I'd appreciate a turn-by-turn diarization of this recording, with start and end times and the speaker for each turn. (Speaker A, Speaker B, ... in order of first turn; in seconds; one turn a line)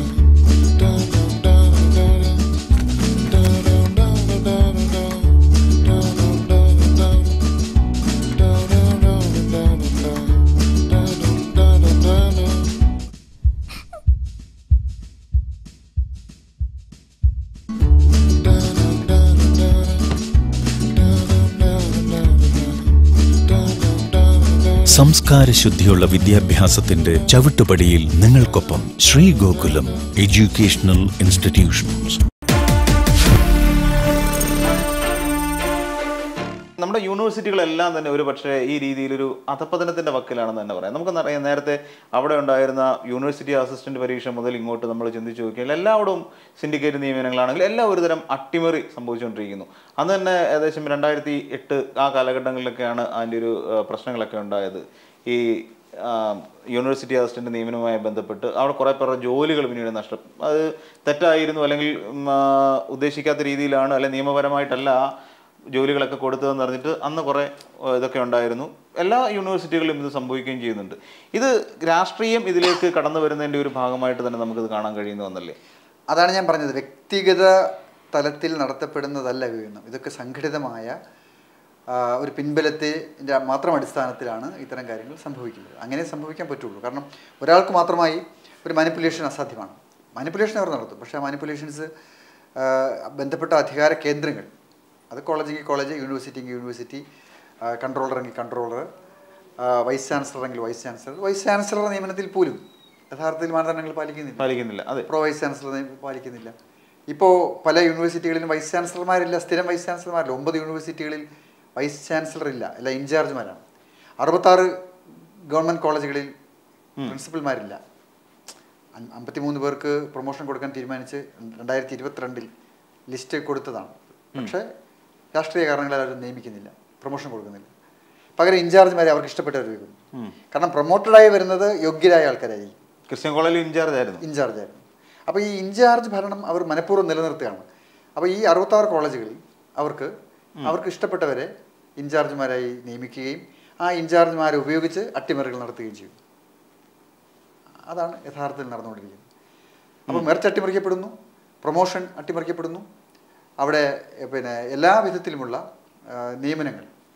Speaker A: 24.9-32.2
Speaker B: 36.8-65.1
Speaker B: 65.7-75.6
Speaker C: 76.1-81.0
Speaker C: 81.9-91.9
Speaker C: 92.6-94.5
Speaker C: 95.1-97.0
Speaker C: 97.7-98.9
Speaker C: 99.6-104.5
Speaker B: 104.4-105.1
Speaker C: 105.1-106.5
Speaker C: 107.1-111.2
Speaker C: 111.8-113.6
Speaker C: 114.2-114.7
Speaker C: 115.5-116.3
Speaker C: 117.1-117.8
Speaker C: 119.0-122.5
Speaker C: 123.1-124.7
Speaker C: 125.3-127.7
Speaker C: 128.4-130.0
Speaker C: 130.5-132.8
Speaker B: 133.1-134.2
Speaker C: 134.2-137.7
Speaker C: 138.2-140.1
Speaker C: 140.7-146.2
Speaker C: 147.9-149.2
Speaker C: 150.1-151.1
Speaker C: 151.6-152.8
Speaker C: 153.6-156.9